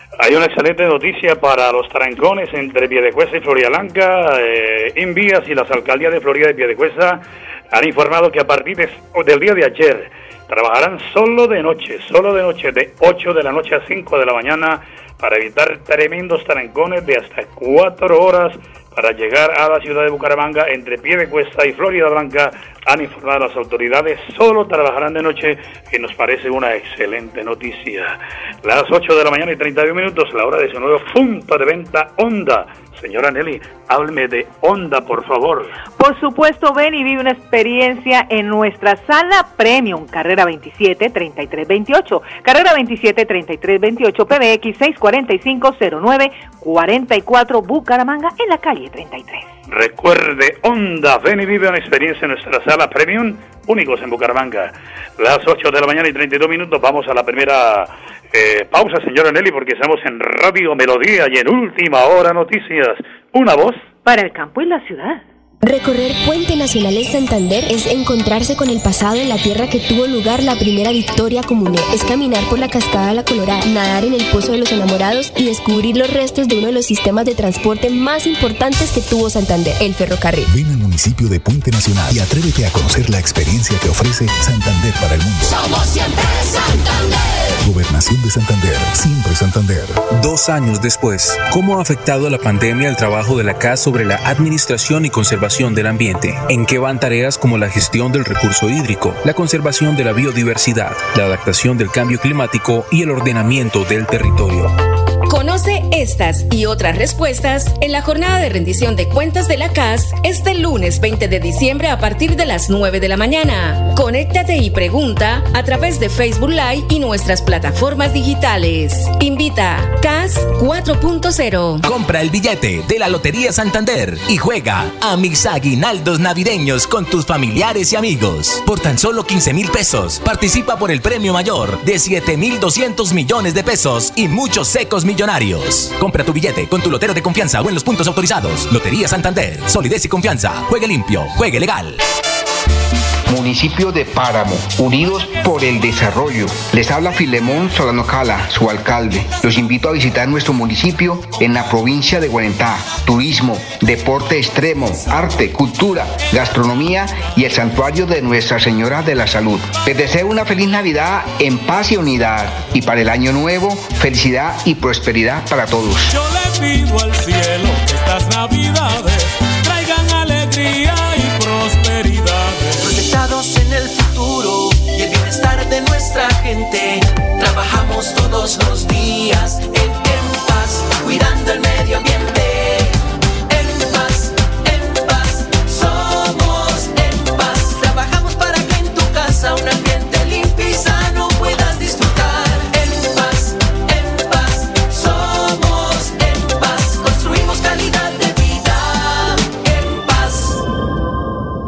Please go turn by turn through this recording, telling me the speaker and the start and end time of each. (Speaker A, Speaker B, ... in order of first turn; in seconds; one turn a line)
Speaker A: 0.2-35.8
Speaker B: 36.0-49.5
Speaker A: 49.7-63.8
Speaker B: 64.0-65.2
Speaker C: 65.6-80.5
Speaker D: 80.5-85.6
Speaker D: 87.6-90.0
Speaker E: 90.1-104.7
Speaker F: 105.3-121.8
Speaker G: 121.8-142.0
Speaker H: 143.3-166.1
Speaker I: 166.1-173.0
Speaker J: 172.8-183.0
Speaker J: 183.5-200.6